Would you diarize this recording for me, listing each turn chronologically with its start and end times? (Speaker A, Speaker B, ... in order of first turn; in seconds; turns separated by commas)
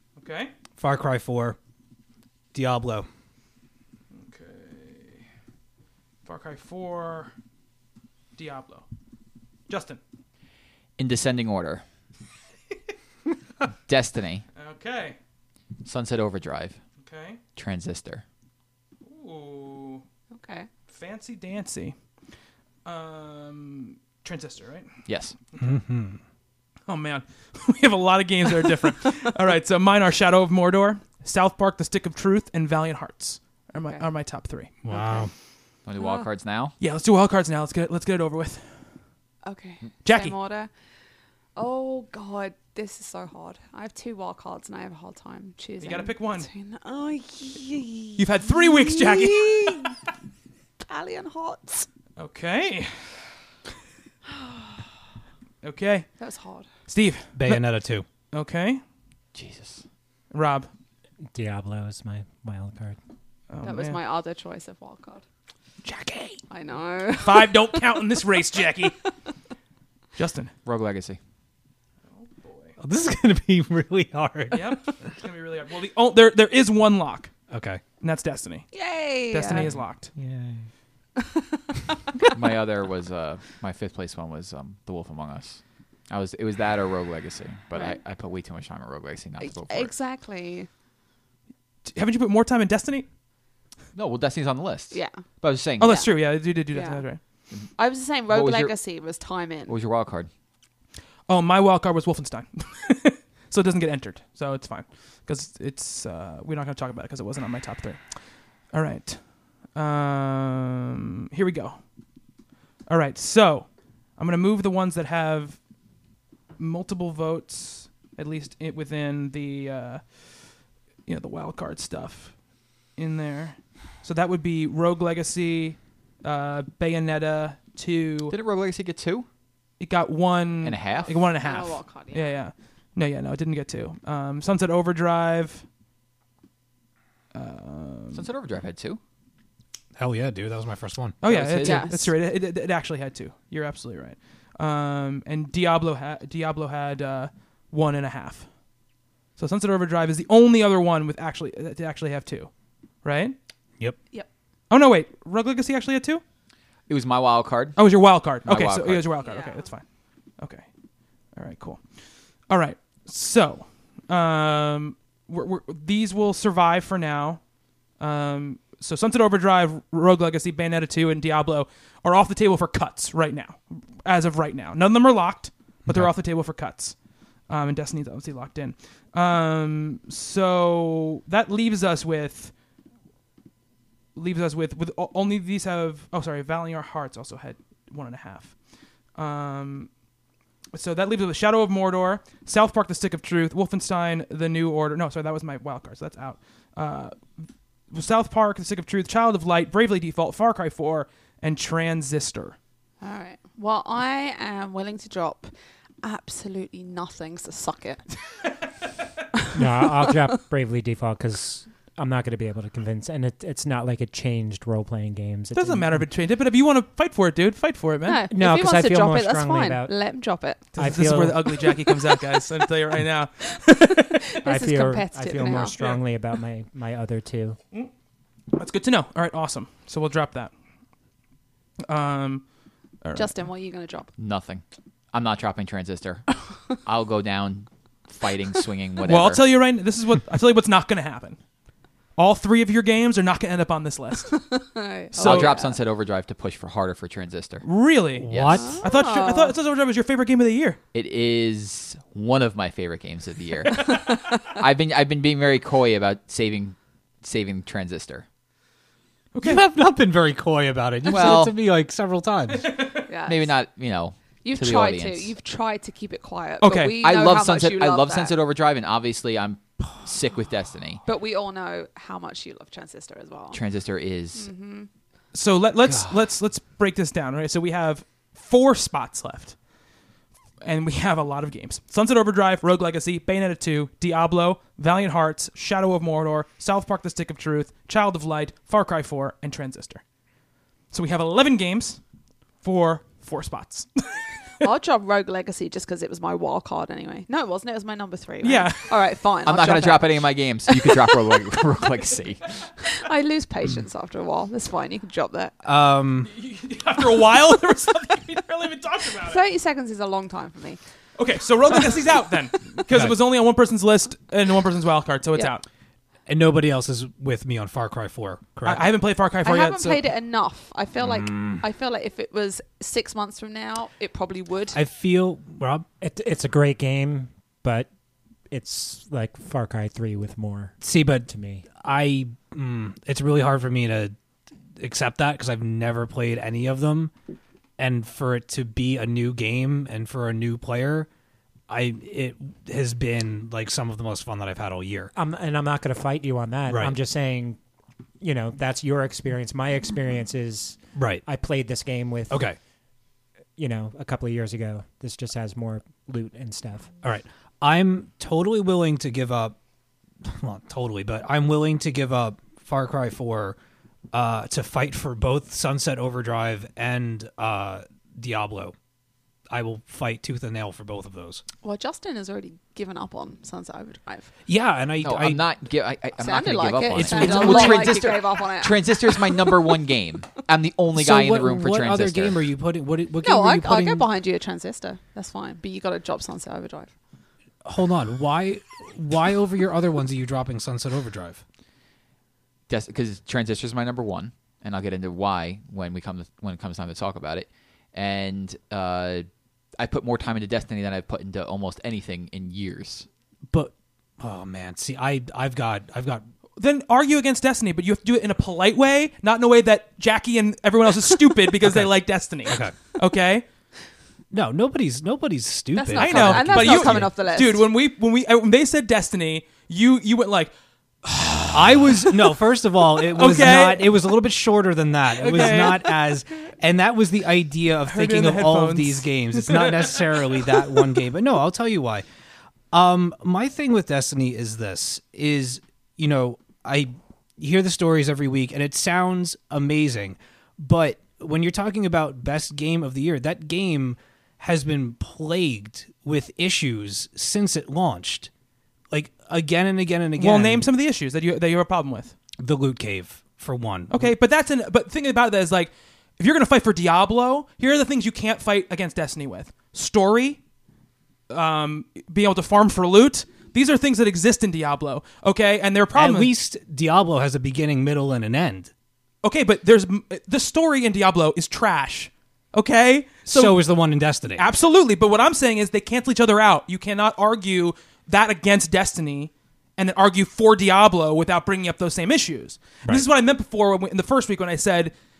Speaker A: 0.2-0.5, Speaker B: 0.8-1.6, Speaker B: 2.5-3.1, Speaker A: 4.1-5.2, Speaker A: 6.2-7.3, Speaker A: 8.3-8.8, Speaker A: 9.7-10.0, Speaker C: 11.0-11.8, Speaker C: 13.9-14.4, Speaker A: 14.6-15.2, Speaker C: 15.8-16.8, Speaker A: 17.0-17.4, Speaker C: 17.6-18.2, Speaker A: 19.0-20.0, Speaker D: 20.3-20.7, Speaker A: 20.9-21.9, Speaker A: 22.8-24.9, Speaker C: 25.1-25.3, Speaker B: 25.6-26.2, Speaker A: 26.9-34.7, Speaker B: 34.8-35.3, Speaker D: 34.9-35.3, Speaker C: 35.8-36.7, Speaker D: 36.0-36.2, Speaker A: 36.8-38.7, Speaker D: 39.4-40.7, Speaker A: 40.0-40.3, Speaker D: 41.5-49.9, Speaker A: 45.8-46.5, Speaker A: 48.2-49.9, Speaker D: 50.9-51.9, Speaker A: 52.2-53.0, Speaker A: 55.6-56.1, Speaker D: 56.2-56.6, Speaker A: 56.9-57.7, Speaker B: 57.3-58.0, Speaker A: 58.3-58.8, Speaker C: 59.3-59.8, Speaker A: 60.3-60.7, Speaker E: 61.3-63.0, Speaker A: 63.5-64.0, Speaker D: 63.6-65.2, Speaker A: 65.9-66.3, Speaker B: 66.1-66.3, Speaker D: 66.5-68.2, Speaker A: 67.2-68.9, Speaker A: 70.2-70.5, Speaker C: 70.6-71.2, Speaker A: 72.1-72.8, Speaker B: 72.8-74.8, Speaker A: 74.5-77.3, Speaker B: 77.5-77.8, Speaker A: 78.0-78.7, Speaker D: 78.7-79.7, Speaker A: 79.3-80.1, Speaker B: 79.5-80.7, Speaker D: 81.2-82.3, Speaker C: 82.3-89.9, Speaker D: 87.7-88.0, Speaker D: 89.4-90.7, Speaker A: 91.8-93.1, Speaker C: 93.9-96.0, Speaker D: 94.9-95.2, Speaker D: 95.8-96.1, Speaker A: 95.8-97.2, Speaker D: 96.7-97.0, Speaker D: 97.8-99.7, Speaker C: 98.3-98.8, Speaker C: 99.7-100.3, Speaker A: 101.3-108.0, Speaker A: 108.7-111.8, Speaker A: 112.9-115.6, Speaker A: 116.6-120.5, Speaker A: 121.0-122.3, Speaker A: 123.0-128.3, Speaker C: 128.3-129.2, Speaker A: 129.8-135.6, Speaker C: 130.6-131.2, Speaker D: 131.2-132.3, Speaker A: 137.3-138.3, Speaker C: 138.1-139.0, Speaker B: 139.9-141.2, Speaker A: 141.2-148.5, Speaker C: 141.2-141.9, Speaker D: 141.6-142.1, Speaker A: 149.4-152.5, Speaker A: 153.0-153.3, Speaker A: 154.7-156.2, Speaker C: 156.9-157.8, Speaker A: 157.8-159.8, Speaker C: 158.4-159.1, Speaker D: 159.2-159.7, Speaker A: 160.4-160.6, Speaker A: 161.3-161.8, Speaker A: 162.5-167.4, Speaker A: 168.0-176.9, Speaker B: 175.8-176.1, Speaker A: 177.5-182.5, Speaker A: 184.1-188.5, Speaker A: 189.2-189.9, Speaker A: 190.7-202.6, Speaker D: 203.0-205.5, Speaker D: 206.0-208.0, Speaker E: 209.5-215.9, Speaker A: 215.5-218.2, Speaker D: 218.0-220.7, Speaker E: 218.3-219.9, Speaker E: 220.8-221.6, Speaker A: 220.8-224.1, Speaker D: 221.5-222.4, Speaker D: 223.5-225.7, Speaker E: 224.4-227.6, Speaker A: 225.4-226.0, Speaker A: 228.5-230.5, Speaker A: 231.9-232.4, Speaker A: 233.0-233.3, Speaker D: 233.1-234.1, Speaker C: 234.2-239.4, Speaker A: 239.0-241.4, Speaker A: 242.2-244.4, Speaker D: 244.3-245.8, Speaker A: 245.1-245.5, Speaker C: 245.2-247.7, Speaker A: 247.6-250.8, Speaker B: 248.2-248.8, Speaker C: 248.3-248.7, Speaker D: 248.5-249.5, Speaker C: 250.9-258.2, Speaker D: 253.9-254.2, Speaker A: 259.3-259.6, Speaker B: 259.4-262.7, Speaker C: 261.1-261.5, Speaker D: 263.1-263.5, Speaker C: 263.2-265.3, Speaker D: 264.4-268.4, Speaker A: 266.6-267.0, Speaker C: 267.0-271.0, Speaker D: 271.0-273.6, Speaker C: 273.5-274.5, Speaker D: 274.3-274.9, Speaker A: 275.3-279.6, Speaker A: 280.6-290.0, Speaker A: 290.9-292.0, Speaker A: 292.6-294.1, Speaker D: 294.6-301.3, Speaker A: 298.4-298.9, Speaker C: 299.4-302.6, Speaker D: 302.8-305.5, Speaker B: 305.6-306.3, Speaker A: 306.3-309.4, Speaker D: 309.2-310.8, Speaker A: 311.2-315.6, Speaker B: 316.2-318.9, Speaker A: 318.6-320.0, Speaker D: 319.4-324.8, Speaker B: 321.0-321.6, Speaker B: 324.7-325.9, Speaker E: 326.0-327.9, Speaker E: 328.5-330.7, Speaker B: 330.8-334.1, Speaker E: 331.2-331.7, Speaker B: 334.8-337.1, Speaker B: 337.8-341.1, Speaker B: 341.7-345.1, Speaker E: 345.1-347.6, Speaker B: 346.7-346.9, Speaker E: 348.2-352.4, Speaker B: 350.9-351.2, Speaker B: 352.3-352.6, Speaker E: 353.6-356.9, Speaker B: 357.0-359.6, Speaker B: 360.2-363.6, Speaker B: 364.1-368.7, Speaker B: 369.5-371.4, Speaker D: 371.6-374.3, Speaker B: 374.5-375.4, Speaker C: 375.0-382.4, Speaker D: 376.2-379.6, Speaker B: 376.9-378.0, Speaker B: 380.9-384.1, Speaker D: 383.2-386.9, Speaker B: 387.6-391.4, Speaker C: 392.7-399.2, Speaker C: 399.8-403.1, Speaker B: 403.5-406.2, Speaker A: 406.6-413.4, Speaker B: 411.6-412.8, Speaker B: 414.3-417.1, Speaker D: 415.7-417.6, Speaker A: 415.9-420.5, Speaker A: 421.0-422.1, Speaker B: 421.5-432.0, Speaker A: 423.1-424.0, Speaker A: 425.1-426.0, Speaker A: 427.9-430.6, Speaker B: 432.7-448.3, Speaker B: 448.9-450.7, Speaker A: 450.2-452.1, Speaker B: 452.4-454.1, Speaker A: 453.9-460.4, Speaker A: 461.3-466.3, Speaker B: 465.9-468.7, Speaker A: 469.2-473.6, Speaker B: 473.3-474.5, Speaker A: 474.4-484.9